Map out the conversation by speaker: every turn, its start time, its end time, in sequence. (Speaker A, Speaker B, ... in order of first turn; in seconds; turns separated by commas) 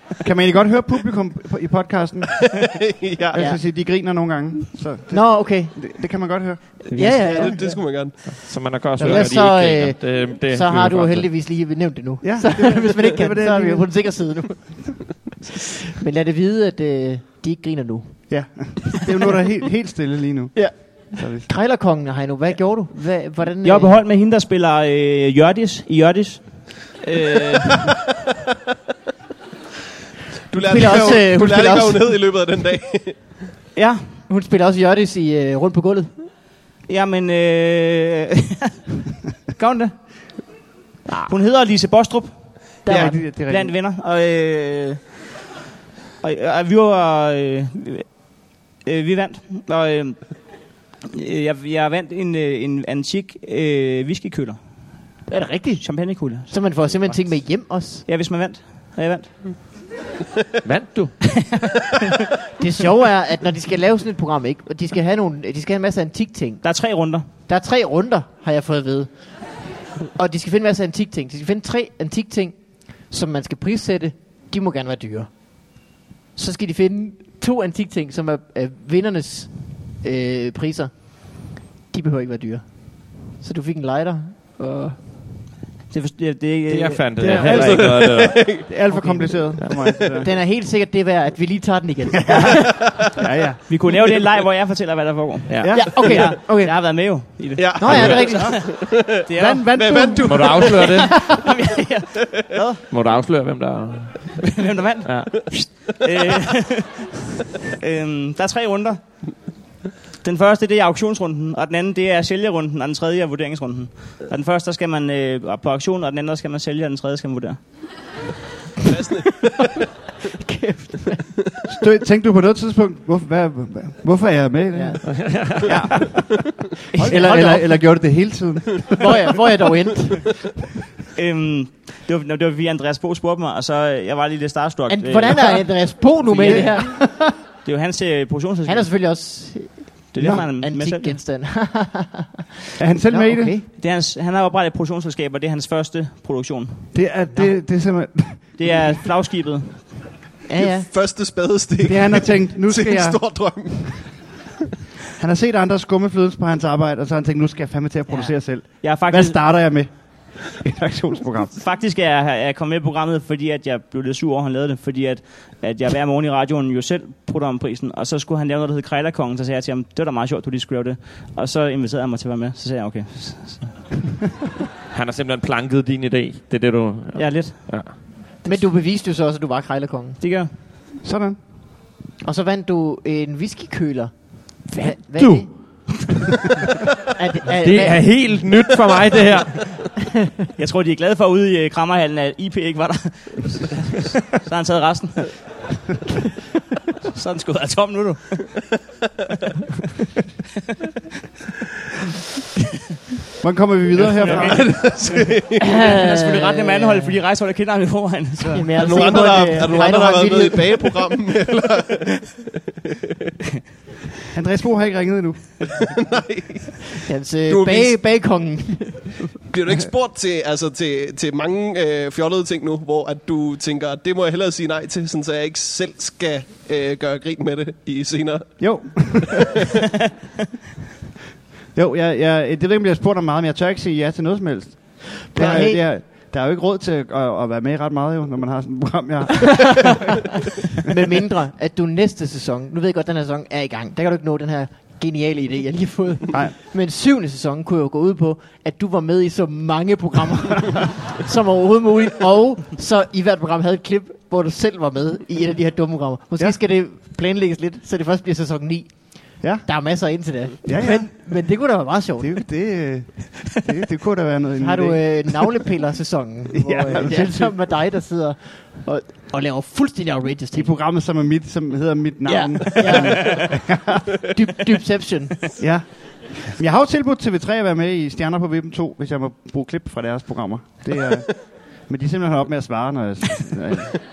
Speaker A: 0.2-2.5, Speaker B: 2.5-3.4, Speaker A: 3.3-7.1, Speaker C: 3.3-3.6, Speaker C: 5.1-5.8, Speaker D: 6.9-7.6, Speaker C: 6.9-7.8, Speaker B: 7.3-8.4, Speaker E: 8.3-11.3, Speaker A: 9.0-9.3, Speaker C: 9.0-18.5, Speaker A: 12.2-13.9, Speaker A: 18.3-21.5, Speaker C: 20.5-24.0, Speaker D: 23.6-27.9, Speaker B: 30.5-33.4, Speaker C: 30.6-32.2, Speaker D: 33.7-34.0, Speaker C: 34.3-36.3, Speaker D: 36.9-38.7, Speaker D: 39.5-40.4, Speaker C: 41.1-41.3, Speaker D: 41.2-45.1, Speaker C: 42.8-43.2, Speaker A: 42.9-43.7, Speaker D: 46.2-55.2, Speaker C: 55.3-58.0, Speaker D: 55.8-59.4, Speaker E: 60.6-61.3, Speaker C: 62.6-66.6, Speaker D: 66.6-67.2, Speaker C: 67.5-69.5, Speaker C: 70.1-85.0, Speaker D: 85.9-87.2, Speaker E: 86.7-88.7, Speaker A: 87.2-90.3, Speaker C: 87.2-87.8, Speaker B: 87.4-88.6, Speaker D: 88.9-89.3, Speaker E: 89.6-89.8, Speaker B: 89.8-90.0, Speaker C: 90.2-93.1, Speaker A: 92.1-93.6, Speaker D: 93.7-99.9, Speaker E: 95.5-95.9, Speaker A: 95.6-96.3, Speaker C: 95.7-98.7, Speaker B: 97.6-99.2, Speaker E: 97.9-98.2, Speaker A: 98.1-98.6, Speaker A: 99.3-100.6, Speaker B: 99.7-101.1, Speaker E: 100.3-101.4, Speaker D: 100.8-102.7, Speaker E: 102.9-105.8, Speaker D: 104.5-106.9, Speaker D: 107.8-109.5, Speaker D: 110.2-117.6, Speaker B: 118.9-119.7, Speaker C: 120.4-121.7, Speaker A: 121.7-129.4, Speaker C: 124.7-125.7, Speaker E: 125.0-126.2, Speaker D: 126.9-127.3, Speaker C: 126.9-128.0, Speaker C: 129.0-130.5, Speaker D: 131.2-138.9, Speaker C: 134.9-137.1, Speaker A: 136.4-137.2, Speaker C: 138.7-142.4, Speaker D: 140.1-141.2, Speaker A: 140.2-140.5, Speaker A: 142.8-143.6, Speaker C: 143.0-143.6, Speaker D: 143.7-146.9, Speaker A: 146.9-148.8, Speaker D: 148.6-149.9, Speaker C: 150.5-150.9, Speaker B: 150.6-154.4, Speaker A: 151.8-153.7, Speaker A: 155.2-161.6, Speaker C: 158.1-158.3, Speaker D: 158.8-159.4, Speaker D: 161.5-173.8, Speaker E: 174.9-177.9, Speaker D: 177.1-177.9, Speaker C: 178.4-180.2, Speaker D: 180.2-180.5, Speaker A: 181.0-181.5, Speaker C: 182.2-185.9, Speaker E: 184.8-186.1, Speaker C: 187.1-188.5, Speaker E: 187.5-189.9, Speaker D: 190.6-195.4, Speaker D: 197.0-198.7, Speaker A: 203.4-205.2, Speaker B: 204.0-205.8, Speaker C: 205.6-207.1, Speaker D: 205.7-208.7, Speaker C: 208.5-211.1, Speaker B: 208.8-212.4, Speaker A: 214.3-215.8, Speaker B: 215.6-218.0, Speaker C: 217.0-219.3, Speaker B: 219.5-229.4, Speaker A: 228.6-229.6, Speaker A: 231.7-240.1, Speaker C: 235.0-235.8, Speaker B: 235.4-235.6, Speaker C: 239.4-240.0, Speaker C: 240.8-262.3, Speaker A: 246.3-246.6, Speaker A: 259.4-259.9, Speaker A: 260.6-261.6, Speaker A: 262.2-265.6, Speaker C: 264.6-270.7, Speaker A: 266.5-267.5, Speaker A: 270.5-274.0, Speaker C: 272.2-275.6, Speaker D: 272.9-273.1, Speaker A: 275.6-283.9